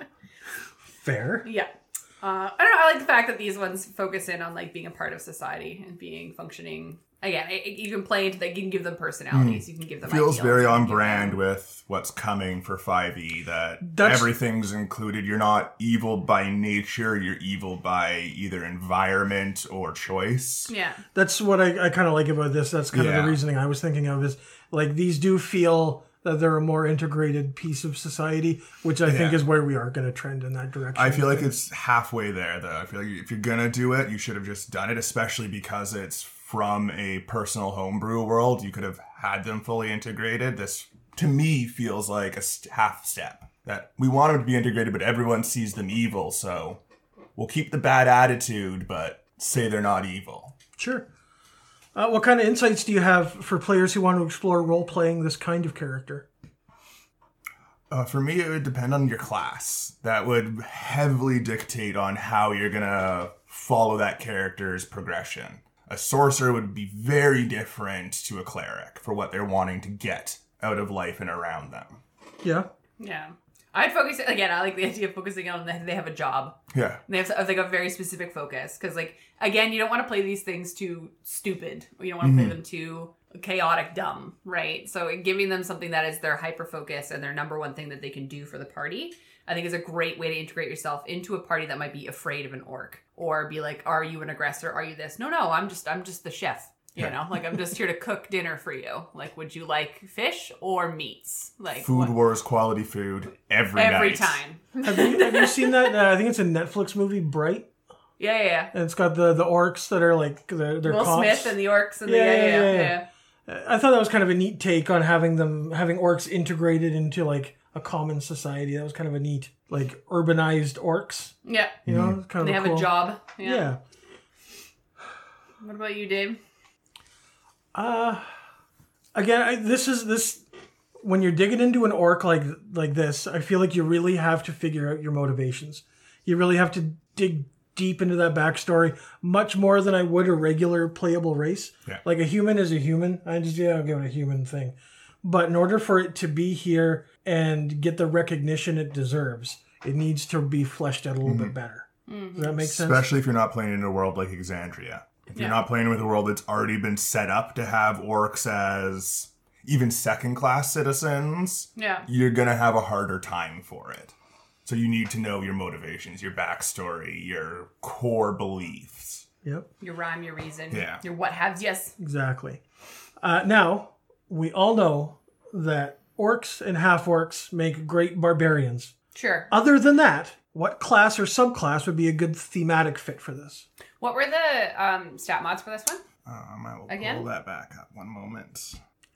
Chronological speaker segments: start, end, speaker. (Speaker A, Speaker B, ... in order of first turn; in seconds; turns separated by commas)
Speaker A: 1.0-1.4, Speaker B: 1.4-11.4, Speaker C: 9.3-20.7, Speaker A: 13.8-14.3, Speaker B: 20.7-21.0, Speaker A: 21.1-31.5, Speaker C: 22.9-23.4, Speaker C: 29.1-29.4, Speaker C: 30.9-46.8, Speaker C: 47.4-50.5, Speaker A: 50.8-51.1, Speaker A: 51.9-56.3, Speaker C: 57.9-72.0, Speaker A: 72.4-72.7, Speaker B: 73.0-102.1, Speaker C: 76.7-77.0, Speaker C: 82.2-82.6, Speaker C: 101.8-104.4, Speaker B: 103.8-105.9, Speaker A: 104.8-107.7, Speaker B: 108.2-108.7, Speaker A: 108.7-123.8, Speaker B: 110.8-113.1, Speaker B: 121.4-121.8, Speaker C: 121.9-122.2, Speaker B: 122.4-123.7, Speaker B: 125.6-126.4, Speaker A: 127.7-128.2, Speaker A: 129.1-130.4, Speaker A: 131.0-153.1, Speaker C: 151.2-151.5, Speaker B: 152.1-152.5, Speaker C: 152.6-164.1, Speaker B: 155.3-155.6, Speaker B: 161.8-162.1, Speaker C: 164.6-169.3, Speaker B: 169.8-171.9, Speaker C: 170.7-171.0, Speaker A: 172.0-172.6, Speaker A: 173.2-178.9, Speaker B: 179.1-179.5, Speaker A: 179.5-183.7, Speaker B: 184.0-186.0, Speaker C: 186.2-188.8, Speaker B: 186.9-187.3